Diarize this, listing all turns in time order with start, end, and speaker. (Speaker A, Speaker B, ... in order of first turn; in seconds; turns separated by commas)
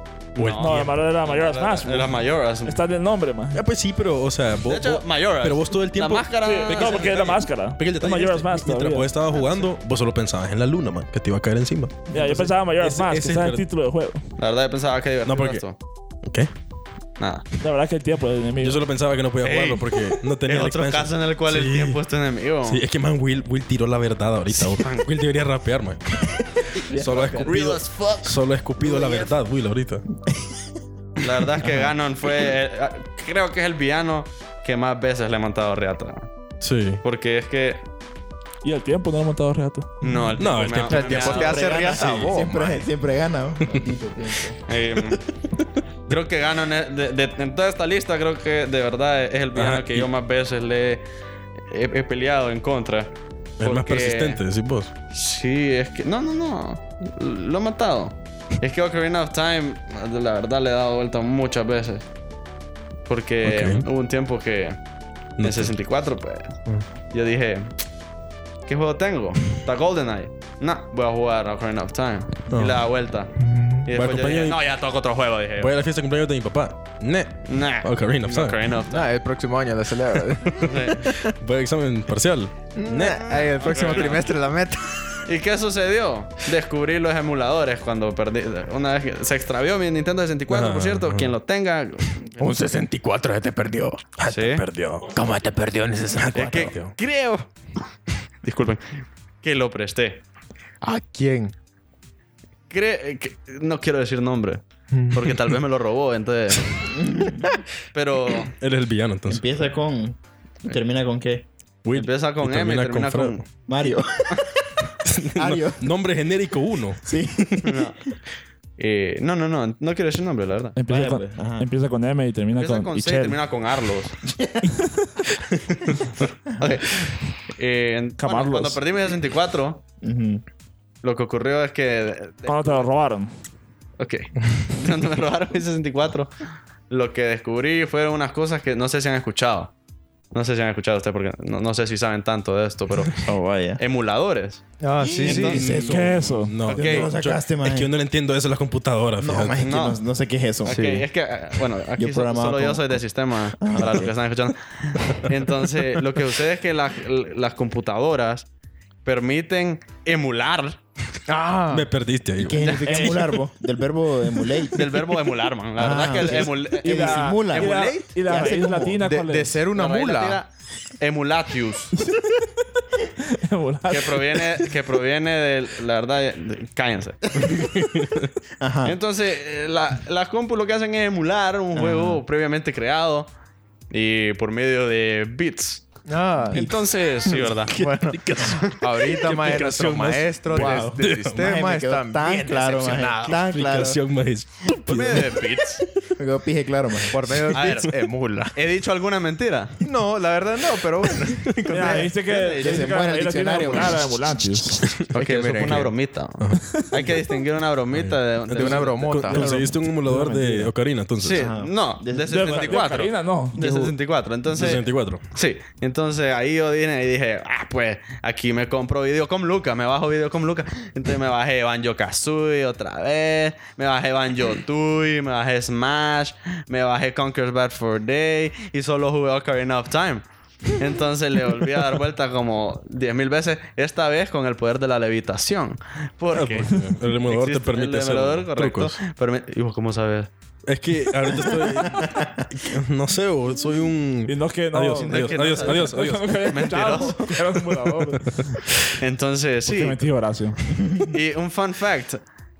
Speaker A: 0.3-0.9, Speaker B: 0.3-2.8, Speaker C: 0.6-3.6, Speaker A: 3.5-6.3, Speaker B: 4.6-7.5, Speaker C: 6.4-9.1, Speaker A: 7.8-13.6, Speaker B: 9.3-9.6, Speaker C: 12.1-14.2, Speaker B: 14.4-15.8, Speaker A: 15.2-15.6, Speaker A: 16.2-16.5, Speaker B: 17.2-17.4, Speaker C: 17.6-18.8, Speaker A: 18.6-22.0, Speaker B: 19.4-22.8, Speaker A: 22.6-30.0, Speaker B: 24.5-25.1, Speaker C: 26.9-27.4, Speaker B: 27.3-29.3, Speaker B: 31.2-36.3, Speaker A: 36.6-37.0, Speaker B: 37.0-37.8, Speaker C: 38.6-39.9, Speaker B: 40.0-42.4, Speaker D: 40.0-42.8, Speaker A: 40.4-41.4, Speaker E: 41.1-44.6, Speaker B: 44.7-45.2, Speaker B: 46.1-51.0, Speaker A: 49.5-50.1, Speaker B: 51.7-54.4, Speaker A: 53.6-54.9, Speaker B: 55.1-62.0, Speaker B: 63.0-64.8, Speaker A: 63.4-63.9, Speaker A: 65.4-65.7, Speaker B: 65.4-67.7, Speaker B: 68.7-73.3, Speaker A: 72.5-72.8, Speaker D: 73.4-73.8, Speaker B: 73.8-75.7, Speaker A: 73.9-74.6, Speaker A: 75.6-78.6, Speaker B: 77.5-79.1, Speaker D: 78.9-81.3, Speaker A: 80.6-83.3, Speaker B: 80.6-81.1, Speaker D: 82.7-85.2, Speaker B: 82.9-84.3, Speaker B: 85.3-92.5, Speaker A: 90.5-91.3, Speaker D: 92.4-94.1, Speaker A: 94.2-95.3, Speaker B: 94.2-94.6, Speaker D: 95.1-96.7, Speaker A: 96.1-96.9, Speaker B: 96.3-97.5, Speaker B: 98.4-98.8, Speaker B: 99.4-100.2, Speaker D: 100.8-101.5, Speaker B: 102.7-106.9, Speaker D: 104.9-105.3, Speaker E: 106.9-107.6, Speaker B: 107.9-108.5, Speaker A: 108.5-109.4, Speaker E: 109.3-111.5, Speaker A: 111.8-113.5, Speaker B: 111.9-113.5, Speaker E: 113.7-114.6, Speaker A: 115.0-117.7, Speaker E: 115.3-115.9, Speaker E: 117.0-117.9, Speaker B: 117.6-118.0, Speaker B: 118.8-120.8, Speaker C: 120.8-123.4, Speaker E: 120.9-121.7, Speaker B: 122.5-124.2, Speaker E: 124.3-124.7, Speaker B: 126.5-129.8, Speaker C: 128.2-128.8, Speaker E: 130.0-130.4, Speaker B: 131.0-132.8, Speaker C: 132.4-133.3, Speaker B: 134.0-136.3, Speaker B: 136.9-139.7, Speaker B: 140.3-144.6, Speaker E: 143.2-143.8, Speaker D: 144.8-145.8, Speaker E: 145.0-147.9, Speaker B: 145.2-145.7, Speaker C: 145.8-146.6, Speaker A: 146.4-149.6, Speaker B: 146.7-147.1, Speaker E: 149.2-150.8, Speaker B: 149.6-150.0, Speaker B: 150.6-158.4, Speaker D: 150.7-151.1, Speaker E: 152.0-153.0, Speaker E: 153.6-154.1, Speaker B: 159.0-160.8, Speaker D: 161.3-161.9, Speaker A: 161.7-162.8, Speaker E: 162.4-165.0, Speaker B: 162.5-163.3, Speaker C: 162.8-163.2, Speaker B: 164.7-168.1, Speaker E: 165.8-169.0, Speaker C: 166.8-169.6, Speaker D: 169.0-170.4, Speaker B: 169.7-171.9, Speaker C: 172.0-172.4, Speaker C: 173.2-174.5, Speaker B: 173.9-177.4, Speaker A: 177.5-178.3, Speaker E: 178.6-179.0, Speaker B: 178.8-183.3, Speaker E: 181.7-182.2, Speaker B: 183.9-185.8, Speaker D: 186.1-186.7, Speaker E: 186.5-186.8, Speaker B: 186.5-187.8, Speaker D: 187.7-193.4, Speaker A: 187.7-191.5, Speaker B: 188.3-188.8, Speaker E: 190.5-194.0, Speaker B: 192.8-193.4, Speaker A: 193.4-195.4, Speaker B: 194.7-195.8, Speaker E: 196.1-197.2, Speaker D: 197.1-198.5, Speaker B: 197.5-197.9, Speaker B: 198.5-199.8, Speaker D: 199.8-202.1, Speaker A: 201.2-201.5, Speaker C: 201.7-204.8, Speaker B: 201.8-202.9, Speaker E: 202.3-204.8, Speaker D: 205.1-205.9, Speaker B: 205.1-209.2, Speaker A: 206.4-207.0, Speaker C: 206.7-206.9, Speaker A: 207.9-211.5, Speaker D: 208.5-209.5, Speaker C: 209.3-210.7, Speaker B: 211.2-240.3, Speaker E: 211.3-212.8, Speaker C: 212.2-213.9, Speaker A: 214.5-215.2, Speaker A: 236.3-239.0, Speaker A: 240.7-246.8, Speaker E: 241.5-242.4, Speaker C: 244.3-248.6, Speaker B: 244.9-247.4, Speaker B: 249.0-250.0, Speaker C: 249.7-250.7, Speaker B: 251.1-252.2